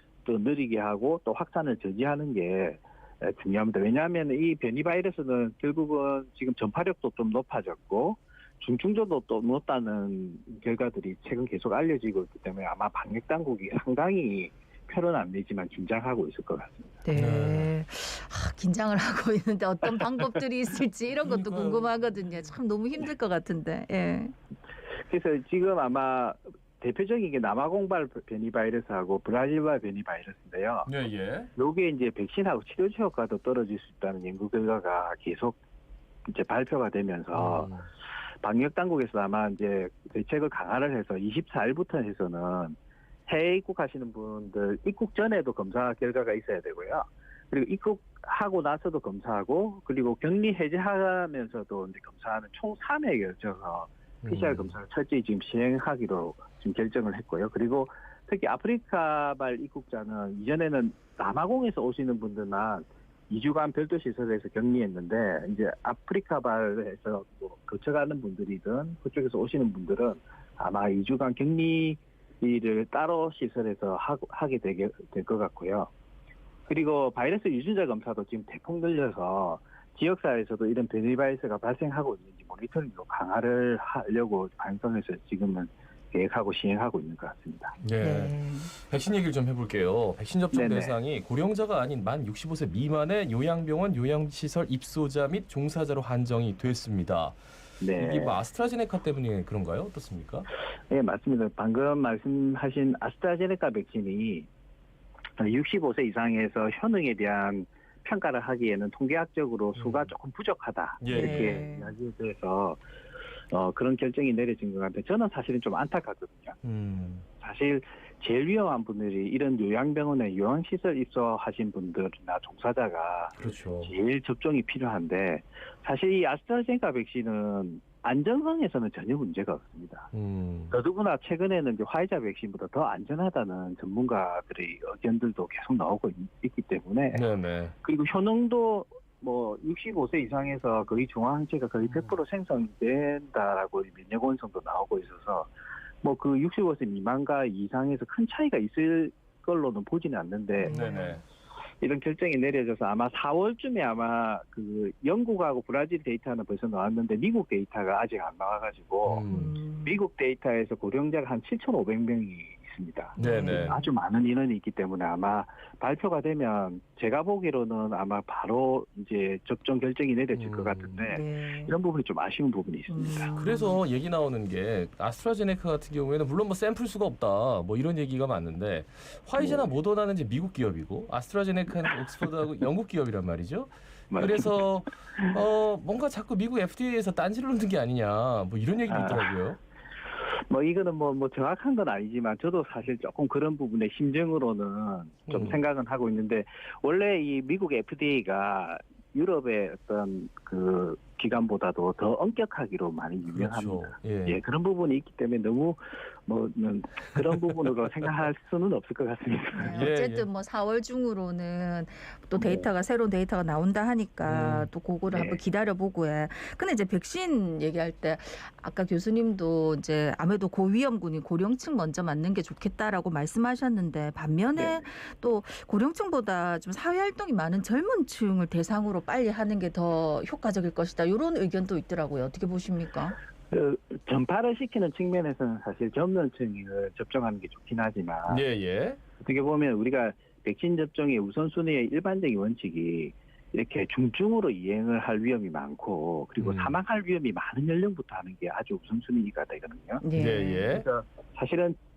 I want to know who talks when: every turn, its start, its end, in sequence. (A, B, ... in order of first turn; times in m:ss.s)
0:00.2-0:16.9 A
0:17.0-0:24.3 B
0:17.2-0:17.7 C
0:21.2-0:21.9 C
0:25.0-0:30.9 A
0:30.8-0:31.5 C
0:31.6-0:35.6 A
0:36.2-0:37.7 A
0:37.3-0:37.9 C
0:38.4-0:42.8 A
0:43.3-1:15.9 A
0:54.2-0:54.7 C
1:16.7-1:27.8 A
1:27.8-1:37.4 C
1:28.0-1:28.7 B
1:30.5-1:31.0 A
1:37.8-1:38.4 A
1:38.0-1:40.5 C
1:40.9-1:44.5 A
1:45.4-1:52.8 A
1:49.8-1:50.1 C
1:51.0-1:51.6 C
1:51.1-1:51.9 B
1:53.5-1:56.6 A
1:56.6-1:57.2 C
1:57.4-2:10.1 A
2:03.4-2:03.9 C
2:10.1-2:10.8 C
2:10.7-2:17.2 A
2:17.1-2:17.7 C
2:17.8-2:25.5 A
2:26.0-2:30.7 A
2:30.6-2:31.2 B
2:30.7-2:31.2 C
2:31.8-2:39.2 A
2:39.0-2:39.5 C
2:39.3-2:40.0 B
2:39.8-2:53.3 A
2:43.2-2:43.8 C
2:43.2-2:43.9 B
2:50.3-2:51.0 C
2:51.1-2:51.7 B
2:52.9-2:53.8 B
2:53.4-3:09.6 C
2:59.4-2:59.7 A
3:04.1-3:04.6 A
3:08.9-3:09.3 A
3:10.3-3:29.9 A
3:15.3-3:15.6 C
3:23.3-3:24.4 C
3:29.5-3:53.2 B
3:29.7-3:30.2 C
3:32.4-3:32.7 A
3:34.2-3:34.7 C
3:35.1-3:35.4 A
3:44.6-3:44.8 A
3:53.5-3:58.4 A
3:58.3-3:59.0 C
3:59.2-4:10.0 A
4:06.4-4:06.8 C
4:10.0-4:10.7 B
4:10.2-4:10.9 C
4:10.7-4:11.8 A